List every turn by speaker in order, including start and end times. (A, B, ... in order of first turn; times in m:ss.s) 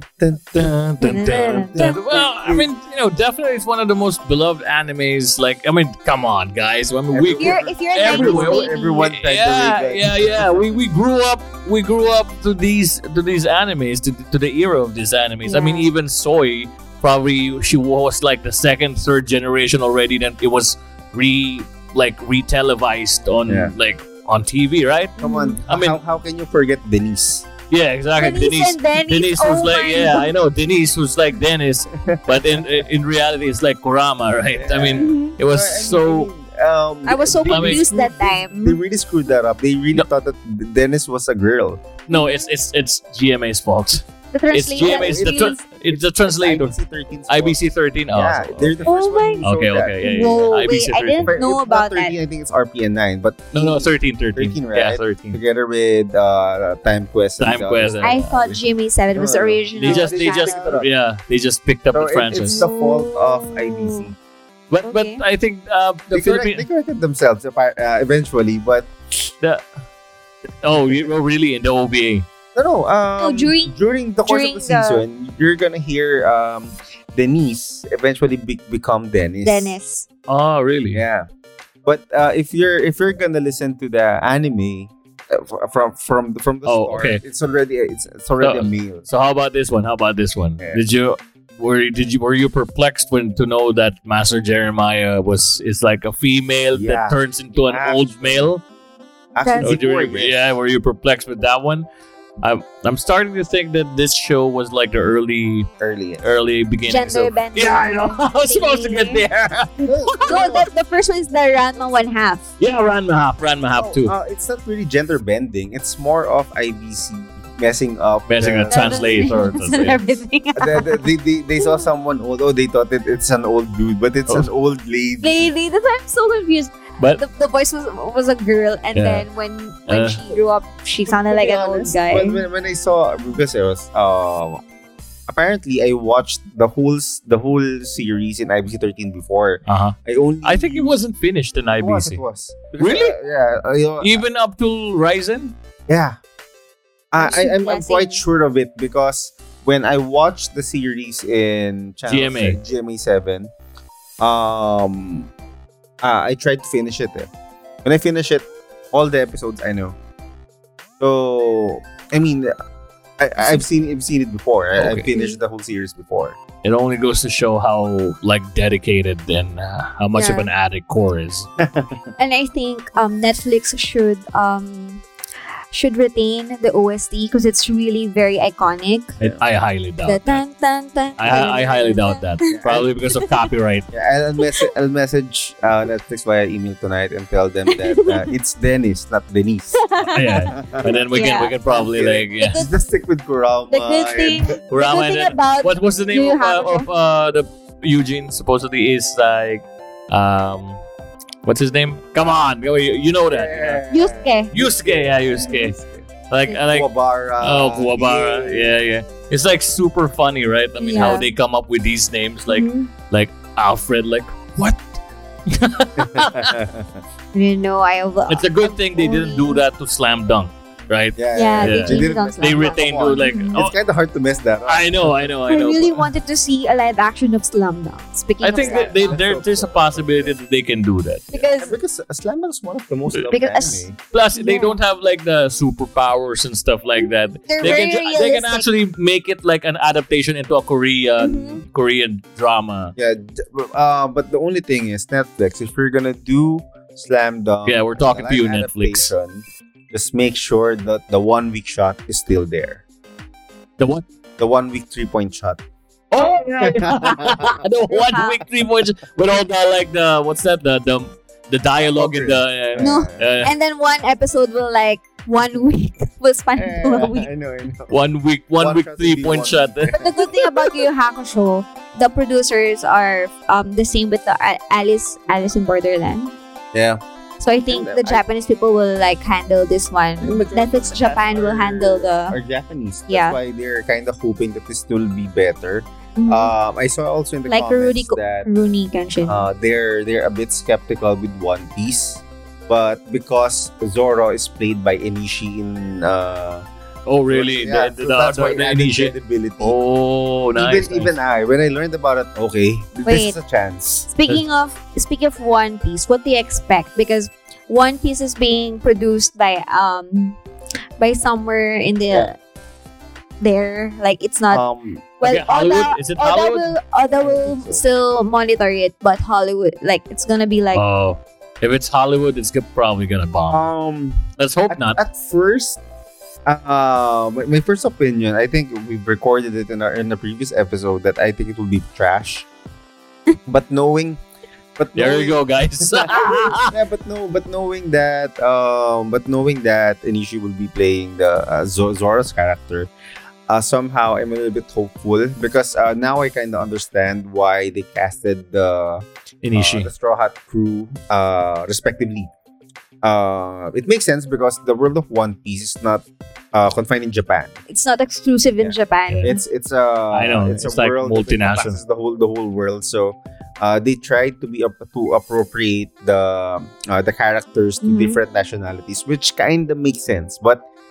0:00.2-0:02.7 A
0:00.6-0:26.0 B
0:01.0-0:02.0 C
0:07.1-0:10.6 A
0:07.4-0:09.1 C
0:15.4-0:15.9 C
0:23.5-0:23.7 A
0:25.2-0:25.6 C
0:25.2-0:27.5 A
0:27.7-0:36.3 B
0:28.2-0:30.3 C
0:31.9-0:32.6 A
0:34.5-0:41.8 A
0:35.0-0:35.4 C
0:37.0-0:38.8 C
0:37.4-0:37.8 B
0:42.1-0:46.8 B
0:42.1-0:42.5 C
0:44.3-0:45.6 C
0:44.8-0:50.7 A
0:47.3-0:51.4 B
0:48.8-0:49.4 C
0:50.0-0:52.1 C
0:51.2-0:58.6 A
0:53.5-0:55.4 B
0:57.4-0:58.4 B
0:58.0-1:00.7 C
0:59.1-1:00.9 A
0:59.7-1:02.6 B
1:01.9-1:04.1 A
1:02.4-1:04.1 C
1:04.7-1:06.6 B
1:04.8-1:05.2 C
1:06.1-1:08.9 A
1:10.6-1:12.2 B
1:12.5-1:19.8 A
1:13.2-1:15.0 C
1:19.4-1:20.0 C
1:20.3-1:21.0 B
1:20.9-1:21.2 A
1:21.8-1:29.1 A
1:26.6-1:27.2 B
1:28.4-1:38.6 B
1:36.7-1:38.5 A
1:39.3-1:40.5 A
1:39.4-1:39.7 C
1:39.6-1:41.8 B
1:42.4-1:45.7 B
1:45.8-1:46.3 A
1:46.2-1:50.4 B
1:46.9-1:49.3 C
1:49.8-1:50.7 A
1:50.2-1:52.4 C
1:52.6-1:54.1 B
1:53.8-1:59.6 A
1:58.3-2:00.0 B
1:58.7-2:01.0 C
2:00.6-2:05.5 A
2:01.6-2:01.8 C
2:05.2-2:12.4 C
2:08.9-2:09.3 B
2:09.9-2:10.2 B
2:11.1-2:14.6 A
2:15.3-2:21.0 A
2:19.6-2:22.2 B
2:21.8-2:24.2 A
2:22.8-2:23.2 B
2:24.0-2:25.5 B
2:25.9-2:26.2 A
2:27.1-2:33.5 A
2:27.2-2:28.2 C
2:32.1-2:32.6 B
2:34.2-2:35.3 A
2:36.0-2:37.3 A
2:37.8-2:40.0 A
2:41.0-2:42.5 A
2:43.2-2:46.4 A
2:43.4-2:43.6 C
2:44.8-2:45.1 B
2:45.1-2:45.4 C
2:46.6-2:51.5 B
2:50.1-2:50.5 C
2:51.6-2:52.0 A
2:52.2-2:55.0 C
2:55.7-2:59.1 C
2:59.2-3:00.4 B
3:00.0-3:03.3 C
3:01.2-3:03.9 B
3:01.2-3:01.5 A
3:02.5-3:02.9 A
3:03.9-3:11.1 A
3:07.7-3:08.1 C
3:09.7-3:11.5 C
3:10.1-3:12.6 B
3:11.6-3:14.6 A
3:12.4-3:12.8 C
3:13.7-3:16.9 C
3:14.7-3:20.8 B
3:21.4-3:23.8 B
3:23.3-3:26.1 A
3:23.9-3:24.5 C
3:24.5-3:25.7 B
3:26.3-3:34.9 B
3:26.6-3:28.8 A
3:30.8-3:31.3 C
3:32.5-3:32.9 C
3:35.5-3:36.5 B
3:36.0-3:37.0 A
3:37.3-3:39.6 C
3:38.3-3:43.7 B
3:41.2-3:45.3 A
3:41.3-3:43.7 C
3:44.6-3:46.1 B
3:45.5-3:49.2 C
3:48.4-3:51.3 B
3:48.6-3:50.4 A
3:51.3-3:51.8 C
3:51.3-3:54.0 A
3:53.3-3:54.8 C
3:54.1-4:02.9 B
3:57.0-3:58.7 C
4:01.2-4:01.6 C
4:03.0-4:12.8 A
4:07.6-4:09.1 B
4:13.8-4:14.0 B
4:14.4-4:15.6 A
4:16.1-4:23.5 B
4:16.6-4:18.2 A
4:18.1-4:18.4 C
4:21.8-4:23.4 A
4:22.8-4:27.3 C
4:26.6-4:28.0 A
4:27.9-4:29.9 B
4:28.6-4:30.1 A
4:29.9-4:36.3 C
4:36.7-4:37.0 A
4:37.4-4:42.4 C
4:37.7-4:38.2 A
4:40.2-4:48.5 A
4:43.1-4:43.4 C
4:46.2-4:46.5 C
4:47.5-4:49.5 C
4:49.2-4:56.6 A
4:57.1-5:01.1 B
4:57.3-4:59.8 A
5:00.5-5:04.1 A
5:03.0-5:03.4 C
5:04.1-5:10.4 C
5:11.0-5:12.3 C
5:13.4-5:14.6 C
5:14.5-5:15.1 A
5:15.2-5:20.8 C
5:15.2-5:16.8 B
5:17.1-5:17.8 A
5:20.7-5:23.7 B
5:23.5-5:25.8 A
5:24.4-5:25.0 B
5:26.4-5:32.5 A
5:33.4-5:34.2 A
5:34.8-5:42.9 A
5:34.9-5:36.7 B
5:43.5-5:52.3 A
5:49.4-5:49.9 B
5:53.0-5:57.5 A
5:57.7-5:59.4 C
5:58.6-6:10.6 A
6:00.1-6:01.8 B
6:07.8-6:08.2 C